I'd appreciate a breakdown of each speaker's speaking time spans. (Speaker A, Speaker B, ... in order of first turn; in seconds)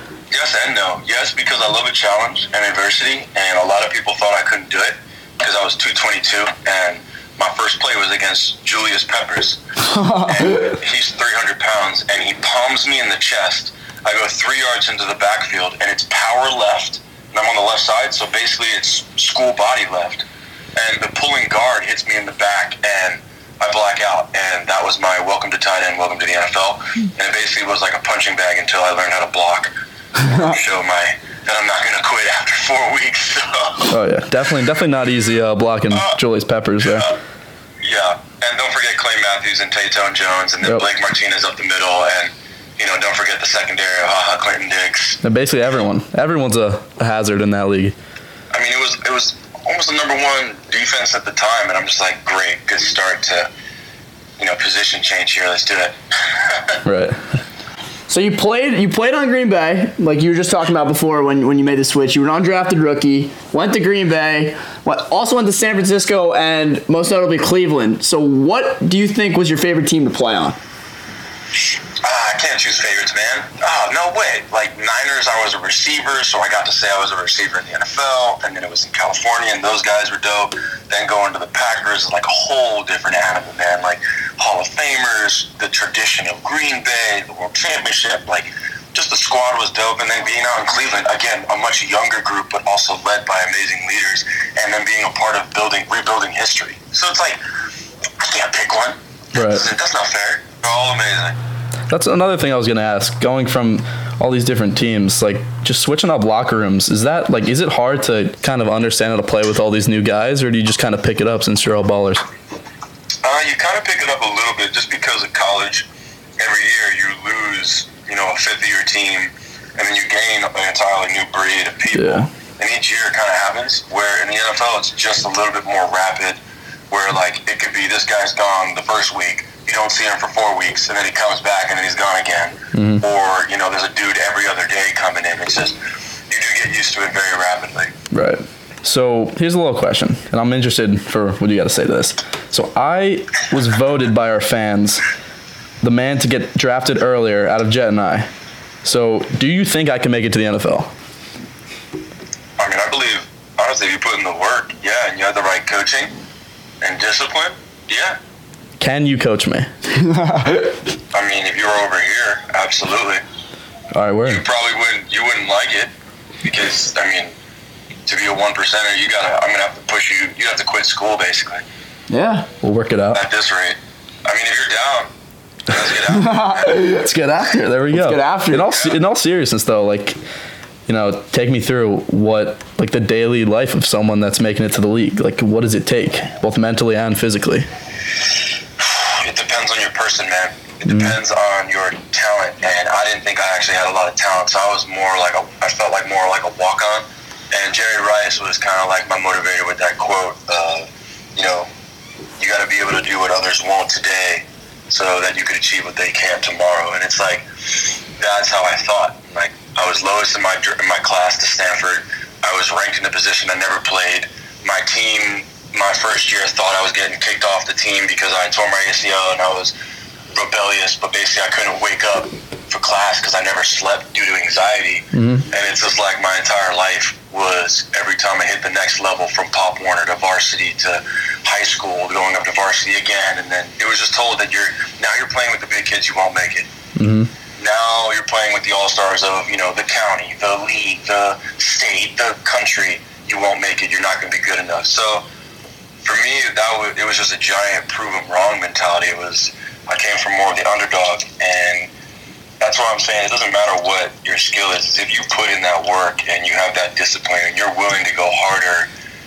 Speaker A: 0.3-9.6, 10.2-34.0, 36.9-37.2, 37.8-45.2, 48.5-53.5, 54.4-56.8, 72.0-97.4, 98.2-101.4, 113.2-115.9, 116.4-126.4, 126.9-135.8, 136.3-137.9, 152.6-156.1, 156.8-158.2, 161.1-163.2, 164.3-165.9, 166.4-167.3, 168.1-171.6, 173.1-175.1, 175.7-176.8, 178.7-178.9, 188.8-201.7, 202.4-219.7, 220.3-236.7, 237.6-245.2, 246.0-251.9, 252.6-258.9
Speaker B: 9.9-10.7, 58.1-70.6, 160.0-160.7, 172.1-172.5, 176.1-178.7
Speaker C: 33.9-37.1, 45.2-48.0, 56.9-57.2, 99.3-99.7, 101.9-112.2, 121.9-122.3, 132.7-133.0, 138.1-145.0, 145.8-148.3, 148.8-150.9, 158.8-159.7, 163.9-164.4, 172.6-173.2, 176.9-180.2, 180.9-187.7, 190.9-191.2, 225.1-225.5, 237.0-237.3